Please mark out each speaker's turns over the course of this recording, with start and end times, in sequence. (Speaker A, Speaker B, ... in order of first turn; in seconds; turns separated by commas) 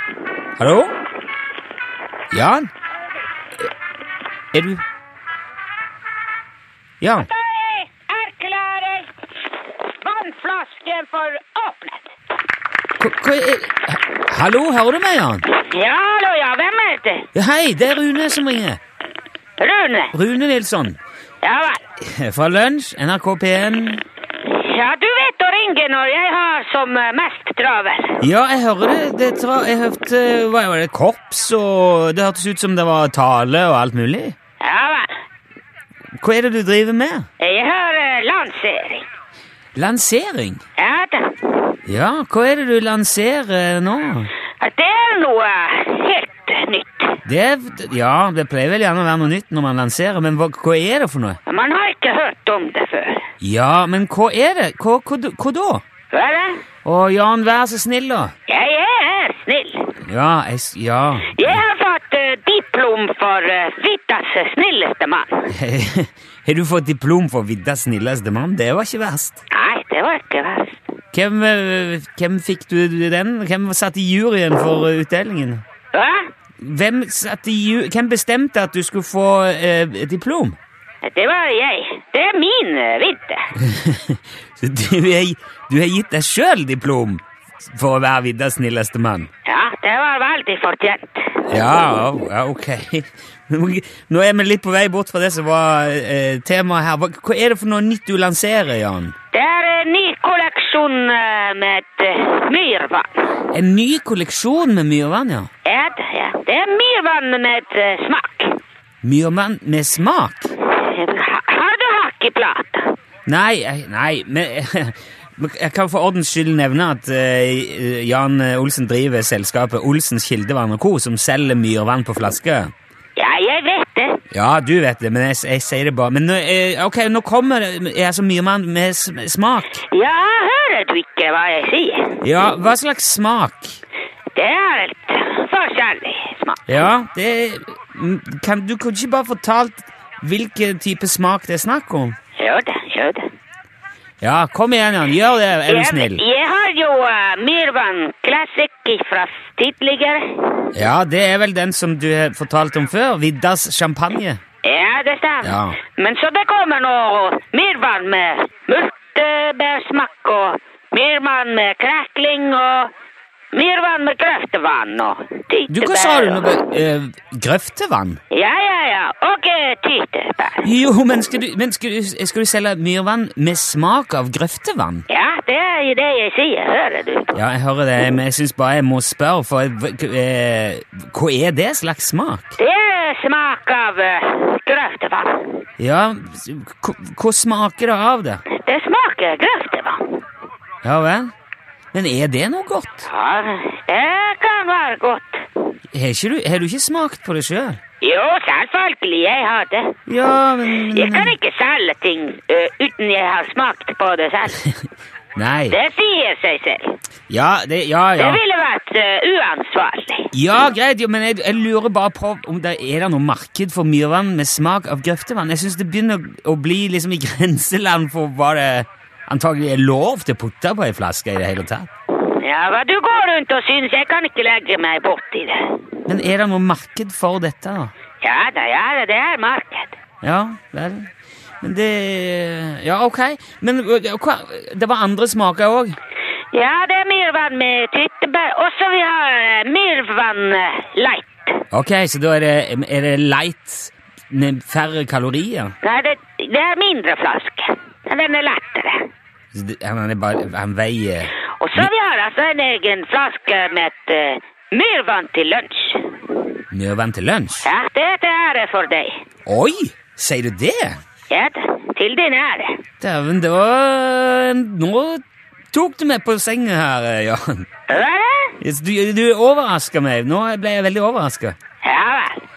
Speaker A: 0.6-0.9, Speaker A: 2.3-2.7, Speaker A: 4.5-4.8, Speaker A: 7.0-7.3, Speaker B: 7.3-12.1, Speaker A: 13.0-15.5, Speaker B: 15.5-17.3, Speaker A: 17.4-18.8, Speaker B: 19.6-20.1, Speaker A: 20.1-21.0, Speaker B: 21.4-21.8, Speaker A: 22.0-24.0, Speaker B: 24.4-28.2, Speaker A: 28.2-34.4, Speaker B: 34.6-35.1, Speaker A: 36.2-37.3, Speaker B: 37.4-39.1, Speaker A: 39.8-40.6, Speaker B: 40.8-41.4, Speaker A: 41.9-44.3, Speaker B: 44.6-47.2, Speaker A: 47.2-51.4, Speaker B: 51.5-53.3, Speaker A: 53.4-55.8, Speaker B: 56.1-56.6, Speaker A: 56.9-58.3, Speaker B: 58.5-59.9, Speaker A: 60.0-61.6, Speaker B: 61.3-65.5, Speaker A: 65.5-69.4, Speaker B: 69.5-70.8, Speaker A: 71.1-75.6, Speaker B: 75.9-76.3, Speaker A: 76.6-80.6, Speaker B: 81.0-83.5, Speaker A: 83.6-89.3, Speaker B: 89.5-91.4, Speaker A: 91.5-99.2, Speaker B: 99.3-103.3, Speaker A: 103.5-105.5, Speaker B: 105.7-108.6, Speaker A: 109.0-110.5, Speaker B: 110.6-112.9, Speaker A: 113.3-122.7, Speaker B: 123.2-124.2, Speaker A: 124.3-129.8, Speaker B: 129.9-132.2, Speaker A: 132.2-133.8, Speaker B: 134.3-136.8, Speaker A: 136.7-142.2, Speaker B: 142.4-143.3, Speaker A: 144.2-146.2, Speaker B: 145.7-150.7, Speaker A: 150.8-154.4, Speaker B: 154.6-162.9, Speaker A: 155.4-155.8, Speaker B: 163.5-166.6, Speaker A: 165.7-168.2, Speaker B: 168.3-170.7, Speaker A: 170.6-175.1, Speaker B: 175.1-177.3, Speaker A: 177.3-182.6, Speaker B: 182.6-185.5, Speaker A: 185.8-188.4, Speaker B: 188.5-190.2, Speaker A: 190.8-191.3, Speaker A: 191.9-193.1, Speaker B: 193.1-195.4, Speaker A: 195.9-197.8, Speaker B: 198.0-200.0, Speaker A: 200.1-201.3, Speaker B: 200.7-204.6, Speaker A: 205.4-205.8, Speaker B: 205.7-207.0, Speaker A: 207.3-208.4, Speaker B: 208.2-210.3, Speaker A: 210.3-221.9, Speaker B: 222.3-225.8, Speaker A: 226.1-227.9, Speaker B: 228.2-230.0, Speaker A: 230.2-231.1, Speaker A: 231.6-236.0, Speaker B: 236.5-241.6, Speaker A: 241.7-245.7, Speaker B: 245.8-249.1, Speaker A: 249.5-251.9, Speaker B: 251.6-256.1, Speaker A: 256.7-257.7, Speaker B: 257.6-259.2, Speaker A: 259.5-261.0, Speaker B: 261.3-262.8, Speaker A: 263.0-267.7, Speaker B: 267.9-268.6, Speaker A: 268.6-271.6, Speaker B: 271.8-272.4